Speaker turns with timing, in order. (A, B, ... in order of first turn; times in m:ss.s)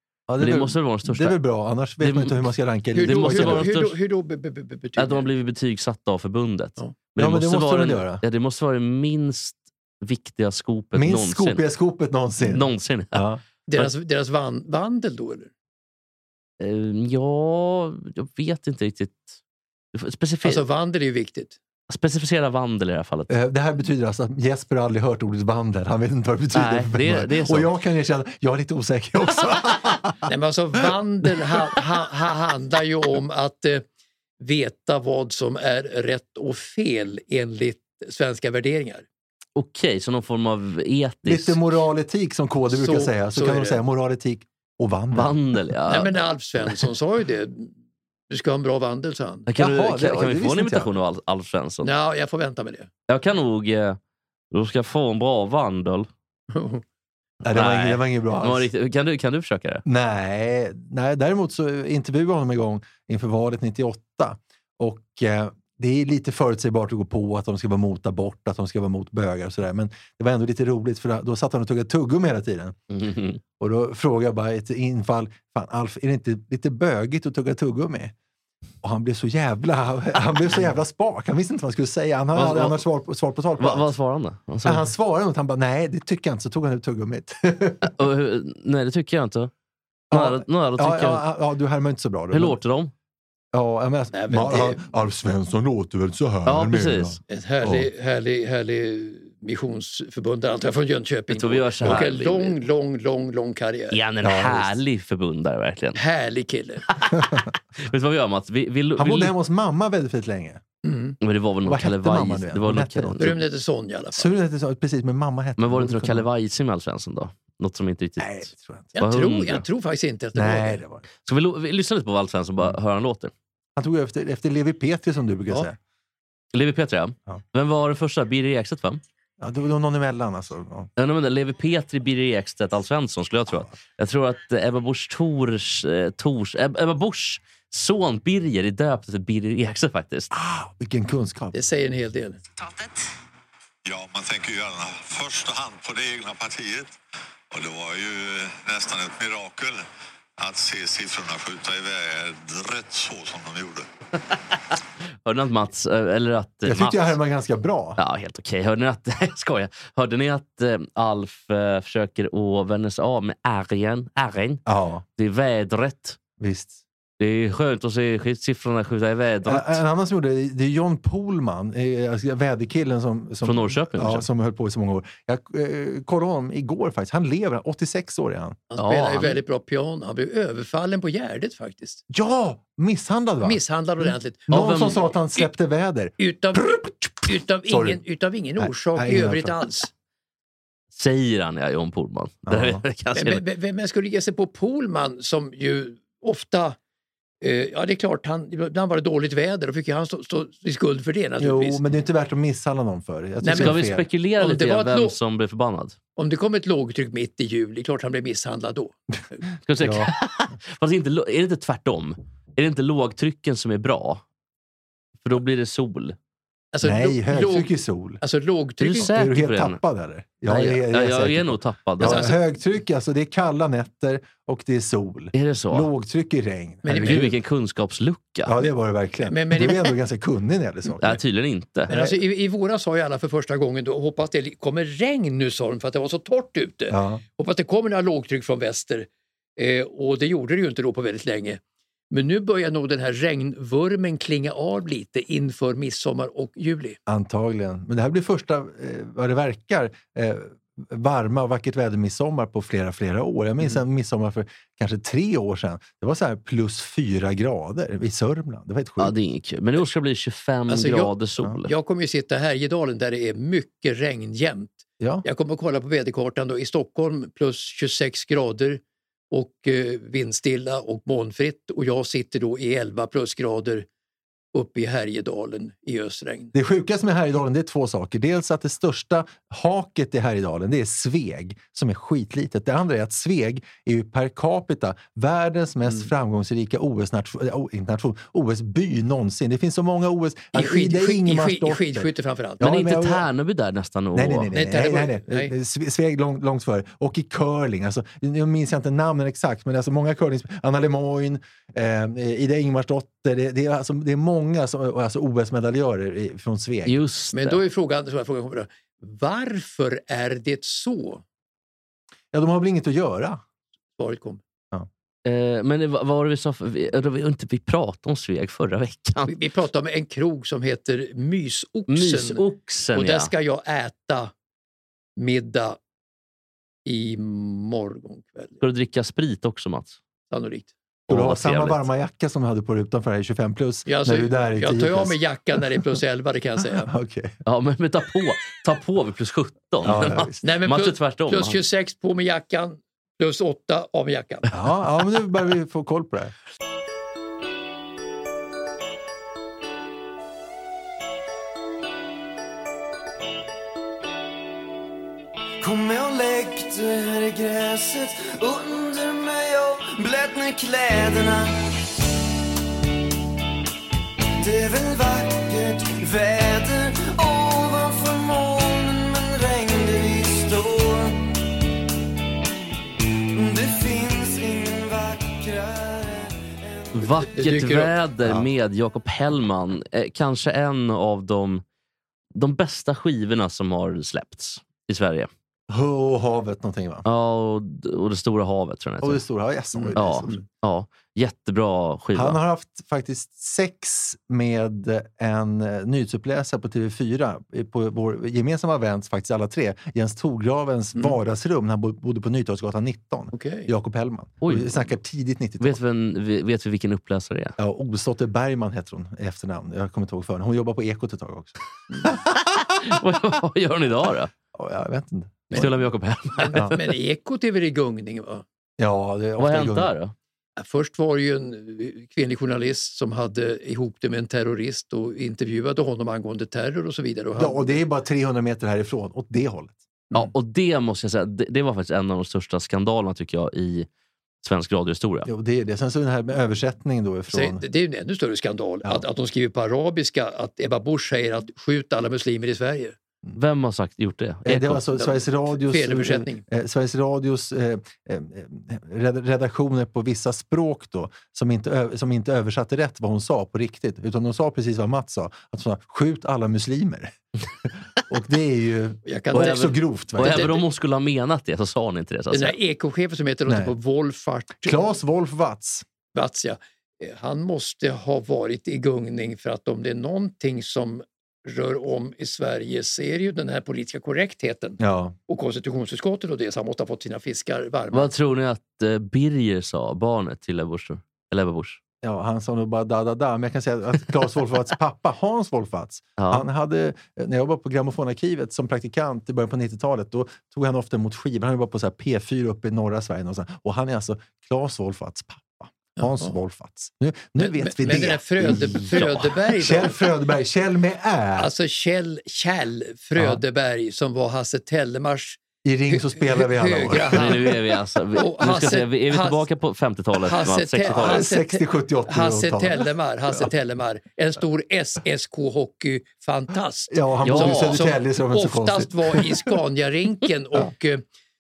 0:00.3-0:03.7 A
0:00.4-0:01.4 B
0:02.0-0:02.5 B
0:02.9-0:05.3 C
0:03.0-0:04.0 B
0:05.0-0:11.6 B
0:07.2-0:08.2 A
0:10.9-0:13.4 A
0:12.4-0:13.9 B
0:13.7-0:15.5 C
0:16.6-0:19.4 B
0:19.9-0:20.6 B
0:20.4-0:21.6 C
0:21.9-0:23.3 B
0:23.3-0:30.2 A
0:26.5-0:27.7 B
0:30.3-0:33.8 C
0:34.4-0:39.1 C
0:39.6-0:41.6 B
0:41.2-0:45.4 A
0:42.7-0:43.8 C
0:45.1-0:46.1 B
0:45.9-0:47.7 C
0:48.3-0:49.5 C
0:49.5-0:51.9 B
0:49.6-0:50.9 A
0:51.8-0:52.9 C
0:53.1-0:54.0 B
0:54.5-0:56.1 B
0:56.5-0:56.8 C
0:57.4-0:58.7 A
0:57.5-0:59.8 B
0:59.8-1:12.8 A
1:12.9-1:13.4 B
1:13.6-1:18.1 A
1:18.8-1:23.9 A
1:22.3-1:22.8 B
1:23.6-1:24.9 B
1:24.6-1:27.9 A
1:28.0-1:29.5 B
1:30.1-1:31.2 B
1:30.1-1:32.6 A
1:32.3-1:32.9 B
1:33.5-1:37.9 A
1:34.1-1:34.8 C
1:36.5-1:37.2 B
1:37.3-1:44.0 C
1:41.3-1:42.6 B
1:43.9-1:46.0 B
1:44.2-1:44.8 A
1:46.0-1:46.9 C
1:47.0-1:49.3 B
1:47.2-1:47.5 A
1:49.0-1:50.6 A
1:50.8-1:51.2 C
1:51.2-1:53.4 B
1:51.6-1:53.4 A
1:53.2-1:54.3 C
1:54.1-1:56.3 A
1:55.6-1:58.5 B
1:58.2-1:59.0 A
1:59.0-2:00.8 C
1:59.0-1:59.6 B
2:00.4-2:01.1 A
2:01.2-2:03.3 B
2:03.8-2:05.8 A
2:06.5-2:09.0 B
2:09.4-2:10.9 A
2:11.0-2:20.3 B
2:20.3-2:21.6 A
2:21.5-2:22.4 C
2:23.8-2:27.0 D
2:27.5-2:29.8 D
2:30.4-2:33.8 D
2:34.3-2:37.2 B
2:36.6-2:38.0 A
2:38.0-2:44.6 B
2:44.7-2:45.0 A
2:45.2-2:46.2 B
2:46.4-2:46.8 A
2:47.2-2:49.8 B
2:49.4-2:58.6 A
2:53.4-2:54.3 B
2:58.7-3:02.0 C
2:58.8-2:59.4 B
3:02.1-3:07.0 A
3:03.4-3:05.5 C
3:06.2-3:09.9 C
3:07.7-3:08.0 A
3:08.6-3:09.6 A
3:10.9-3:13.4 B
3:12.5-3:12.8 A
3:13.2-3:16.8 C
3:17.4-3:21.8 C
3:21.4-3:24.1 A
3:23.4-3:23.8 C
3:23.5-3:26.0 B
3:24.4-3:25.2 C
3:26.2-3:29.4 C
3:29.7-3:34.2 B
3:29.8-3:30.1 A
3:35.2-3:36.2 B
3:36.7-3:37.7 C
3:36.8-3:38.2 A
3:38.2-3:39.1 C
3:38.8-3:39.8 B
3:38.9-3:47.4 A
3:40.5-3:42.3 B
3:42.0-3:42.4 C
3:45.3-3:45.9 B
3:46.8-3:47.3 C
3:47.0-3:48.6 B
3:48.4-3:51.2 A
3:49.3-3:49.9 C
3:51.0-3:51.9 B
3:51.9-4:07.0 C
3:56.9-3:57.2 A
4:07.1-4:19.1 A
4:19.0-4:21.7 B
4:20.7-4:21.1 C
4:21.7-4:33.9 C
4:25.0-4:25.2 A
4:34.5-4:36.5 C
4:36.5-4:52.1 A
4:50.5-4:52.6 C
4:52.6-4:53.3 A
4:52.6-4:54.5 B
4:54.2-5:07.0 A
4:54.5-4:55.5 C
5:06.9-5:07.6 B
5:07.3-5:11.2 C
5:12.3-5:13.4 A
5:14.0-5:14.4 C
5:15.2-5:19.3 B
5:19.3-5:22.4 C
5:21.9-5:23.3 B
5:22.9-5:24.3 C
5:25.2-5:25.8 C
5:26.9-5:28.6 C
5:28.6-5:30.0 B
5:30.3-5:30.7 C
5:31.1-5:35.9 A
5:31.1-5:31.8 B
5:33.9-5:36.9 C
5:36.9-5:37.4 A
5:37.5-5:41.6 B
5:39.8-5:40.4 A
5:40.4-5:44.5 C
5:44.5-5:46.3 A
5:55.6-6:01.6 E
6:04.4-6:11.3 E
6:13.3-6:17.3 E
6:17.0-6:21.6 B
6:17.4-6:17.9 C
6:18.2-6:18.5 A
6:22.3-6:25.3 B
6:25.7-6:27.1 A
6:27.1-6:29.2 B
6:29.0-6:30.4 A
6:29.8-6:30.4 C
6:30.0-6:32.4 B
6:32.1-6:45.8 A
6:43.3-6:43.7 C
6:44.4-6:44.7 B
6:45.6-6:47.6 B
6:47.6-6:51.6 A
6:51.9-6:52.2 C
6:52.3-6:54.3 B
6:54.5-6:55.7 A
6:55.5-6:56.7 B
6:56.4-6:58.4 C
6:58.8-6:59.9 A
6:59.4-7:00.2 B
7:00.6-7:07.8 C
7:07.3-7:09.8 A
7:10.1-7:13.9 B
7:14.4-7:15.3 B
7:15.3-7:17.6 A
7:17.3-7:23.0 C
7:23.3-7:24.8 B
7:24.4-7:40.5 A
7:24.9-7:26.4 C
7:39.1-7:40.6 C
7:39.3-7:42.6 B
7:42.3-7:44.8 C
7:43.5-7:43.7 A
7:44.6-7:45.9 A
7:46.1-7:58.1 C
7:54.8-7:55.2 A
7:57.9-8:01.8 B
8:02.0-8:21.5 A
8:06.2-8:06.4 B
8:16.0-8:16.4 C
8:17.4-8:20.1 C
8:18.5-8:19.3 B
8:21.4-8:27.6 C
8:23.2-8:23.4 A
8:25.6-8:27.4 A
8:27.1-8:31.3 B
8:28.2-8:29.4 C
8:30.2-8:41.0 C
8:30.9-8:32.9 A
8:36.9-8:39.5 A
8:37.2-8:37.8 B